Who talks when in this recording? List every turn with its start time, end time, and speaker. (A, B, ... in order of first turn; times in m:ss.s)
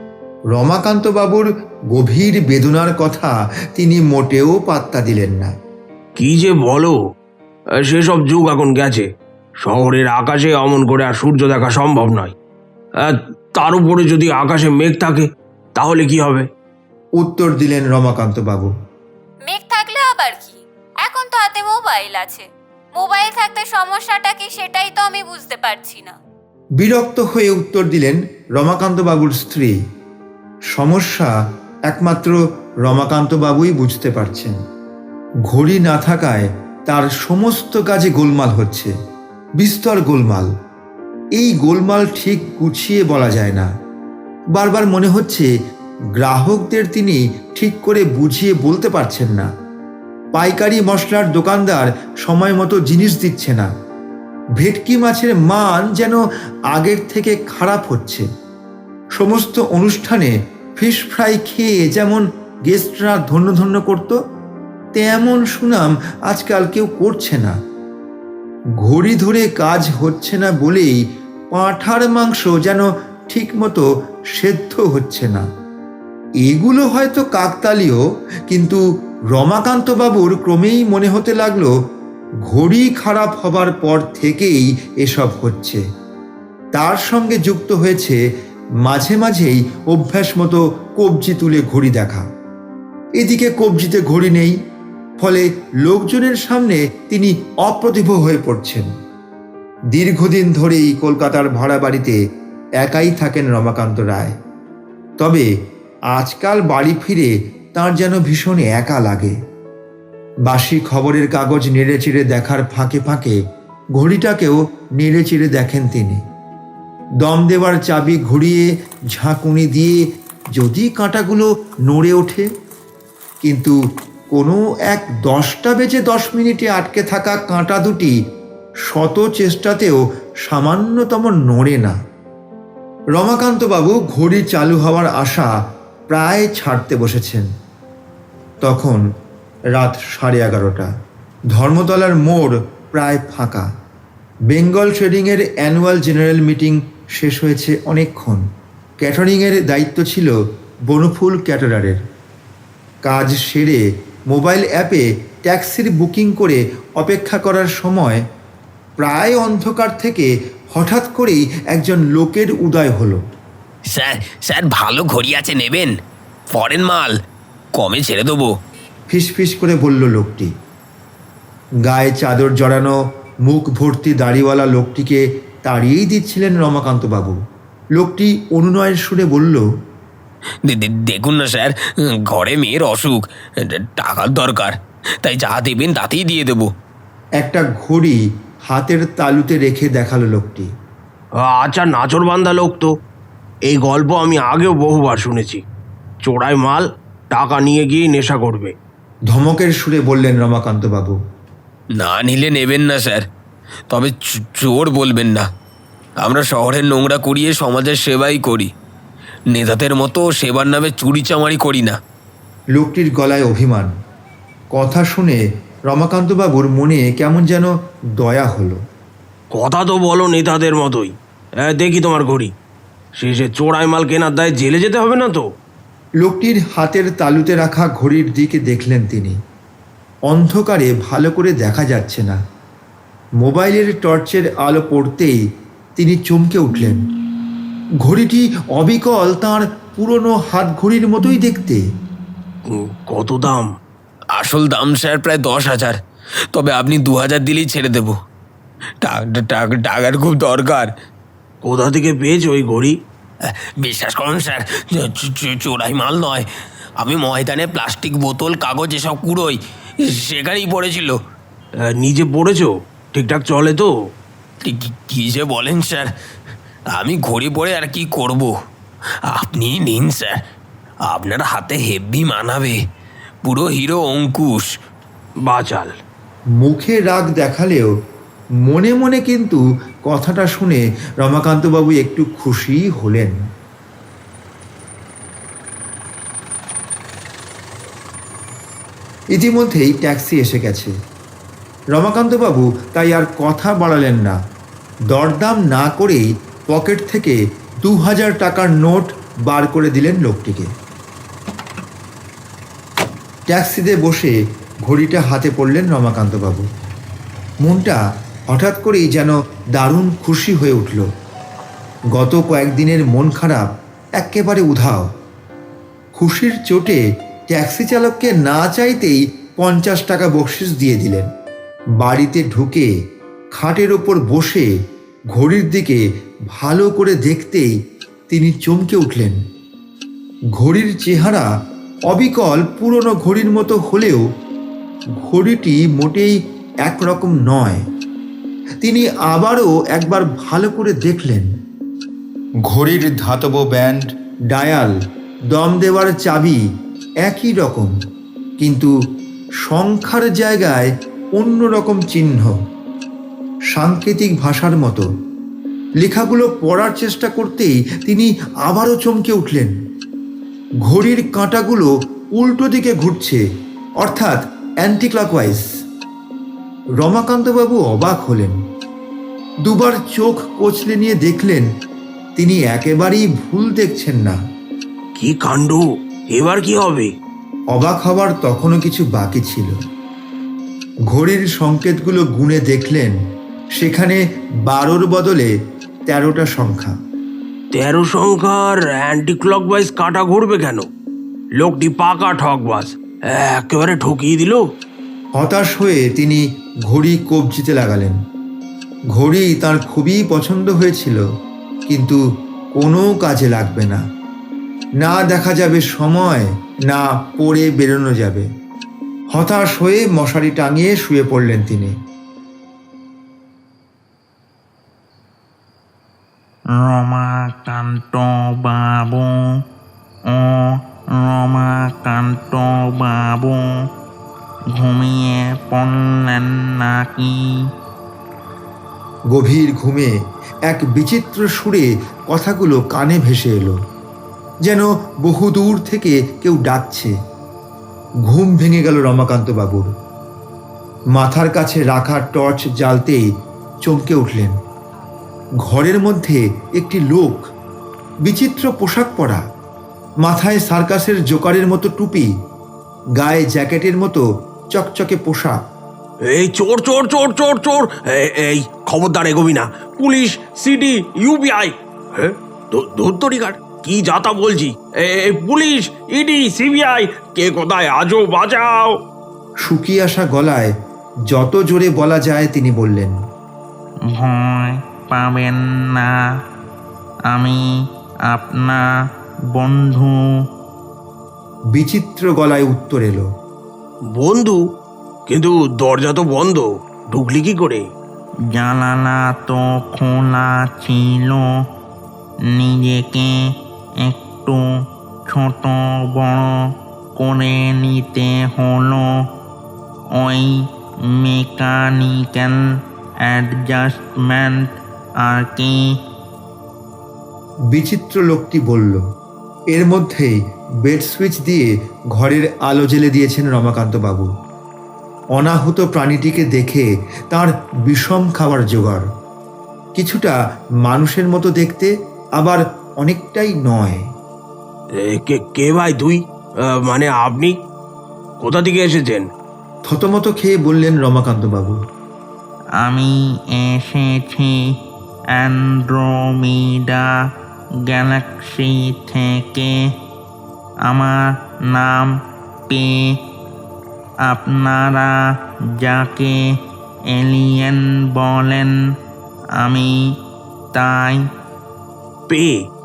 0:00.5-0:05.5 A
0:06.2-0:07.0 B
0:07.8-0:09.1 B
0:09.6-0:12.3 B
0:13.0-0:16.4 B
0:17.2-0:18.7 A
0:19.5-0:26.2 C
0:26.8-0:29.8 A
0:30.7-0:31.3 A
0:31.9-0:34.6 A
0:35.5-0:38.9 A
0:39.6-0:40.5 A
0:41.4-0:43.7 A
0:44.5-0:45.5 A
0:46.2-0:49.5 A
0:50.3-0:53.7 A
0:54.6-0:56.2 A
0:56.7-0:58.3 A
0:59.2-1:04.2 A
1:04.9-1:07.6 A
1:08.8-1:11.0 A
1:11.5-1:15.5 A
1:16.4-1:21.7 A
1:22.4-1:25.8 A
1:26.7-1:28.2 A
1:28.8-1:32.3 A
1:33.2-1:34.6 A
1:35.2-1:38.9 A
1:39.9-1:42.2 A
1:42.8-1:44.4 A
1:45.2-1:45.5 A
1:46.1-1:49.4 A
1:50.4-1:53.4 A
1:53.9-1:56.2 A
1:57.2-2:00.0 A
2:00.5-2:02.4 A
2:03.4-2:03.7 A
2:04.3-2:08.1 A
2:08.9-2:12.0 A
2:13.1-2:15.5 A
2:16.1-2:17.5 A
2:18.6-2:19.0 A
2:19.7-2:20.9 A
2:21.5-2:23.7 A
2:24.5-2:28.4 A
2:29.0-2:30.4 A
2:30.9-2:32.0 A
2:33.0-2:38.2 A
2:39.0-2:43.2 A
2:43.9-2:45.9 D
2:46.5-2:47.1 D
2:47.8-2:48.5 D
2:49.1-2:50.5 A
2:51.8-2:57.4 A
2:58.0-2:59.6 A
3:00.6-3:06.7 D
3:07.4-3:10.7 A
3:11.4-3:12.9 B
3:13.7-3:15.6 B
3:16.2-3:18.7 B
3:19.3-3:21.2 A
3:22.0-3:23.2 D
3:23.9-3:25.5 D
3:26.2-3:28.7 D
3:29.5-3:32.0 D
3:32.7-3:33.9 A
3:34.7-3:38.8 A
3:39.5-3:42.5 B
3:43.2-3:45.4 B
3:46.2-3:49.4 A
3:50.3-3:52.4 A
3:53.4-3:55.4 A
3:56.0-3:57.1 A
3:58.0-4:01.8 A
4:02.7-4:03.7 B
4:04.3-4:06.0 D
4:06.5-4:08.2 D
4:09.0-4:10.9 D
4:11.6-4:12.9 B
4:13.4-4:16.4 D
4:17.0-4:21.2 D
4:22.0-4:23.9 B
4:24.6-4:26.1 D
4:26.9-4:28.5 D
4:29.3-4:30.4 D
4:31.1-4:32.8 D
4:33.4-4:34.7 D
4:35.4-4:35.9 B
4:36.6-4:37.9 A
4:38.6-4:43.4 A
4:49.3-4:50.9 A
4:51.9-4:54.4 A
4:55.1-5:00.7 A
5:03.5-5:06.7 A
5:07.6-5:11.1 A
5:12.1-5:15.1 A
5:16.1-5:21.3 A
5:22.0-5:22.9 A
5:23.6-5:24.7 A
5:25.3-5:27.7 A
5:28.3-5:29.4 A
5:30.6-5:31.5 A
5:32.1-5:34.2 A
5:35.2-5:37.9 A
5:38.8-5:41.5 A
5:42.6-5:44.9 A
5:45.5-5:46.6 A
5:47.2-5:47.9 A
5:48.6-5:48.9 A
5:49.6-5:52.6 A
5:53.7-5:55.1 A
5:56.0-5:59.7 A
6:00.8-6:03.4 A
6:04.0-6:05.6 A
6:07.0-6:08.6 A
6:09.6-6:11.6 A
6:12.4-6:14.4 A
6:15.2-6:17.1 B
6:17.7-6:19.8 A
6:21.1-6:23.1 A
6:23.8-6:25.5 A
6:26.1-6:27.0 A
6:27.7-6:30.8 B
6:31.6-6:34.6 B
6:35.4-6:38.2 A
6:39.1-6:41.2 A
6:41.9-6:42.2 A
6:42.8-6:44.0 A
6:45.0-6:48.4 A
6:49.3-6:51.9 A
6:56.7-6:59.4 E
7:00.3-7:03.7 E
7:04.8-7:07.4 E
7:09.3-7:10.2 A
7:10.7-7:13.8 A
7:14.6-7:17.1 A
7:18.2-7:19.9 A
7:21.1-7:23.2 A
7:23.8-7:24.5 A
7:25.6-7:27.5 A
7:28.2-7:29.4 A
7:30.2-7:32.3 A
7:33.2-7:35.6 A
7:36.3-7:49.0 B
7:49.6-7:50.7 A
7:51.3-7:53.1 A
7:54.1-7:56.1 E
7:57.3-7:57.7 E
7:58.3-7:58.8 E
7:59.5-8:00.2 E
8:01.7-8:03.3 A
8:04.2-8:04.6 B
8:05.3-8:07.8 B
8:08.5-8:11.5 E
8:12.5-8:13.5 E
8:14.0-8:14.6 E
8:15.3-8:16.5 E
8:17.2-8:19.2 E
8:20.2-8:22.6 E
8:23.2-8:25.8 E
8:27.7-8:29.0 A
8:29.7-8:34.3 A
8:35.3-8:39.1 A
8:40.0-8:44.1 A
8:45.0-8:47.5 B
8:48.4-8:49.2 B
8:49.9-8:51.8 A
8:52.8-8:54.6 E
8:55.3-8:57.1 E
8:57.9-8:59.8 E
9:00.9-9:02.1 E
9:02.7-9:03.2 E
9:04.2-9:05.2 E
9:05.8-9:06.4 E
9:07.1-9:08.7 E
9:09.6-9:10.1 E
9:10.7-9:11.2 E
9:12.3-9:12.5 B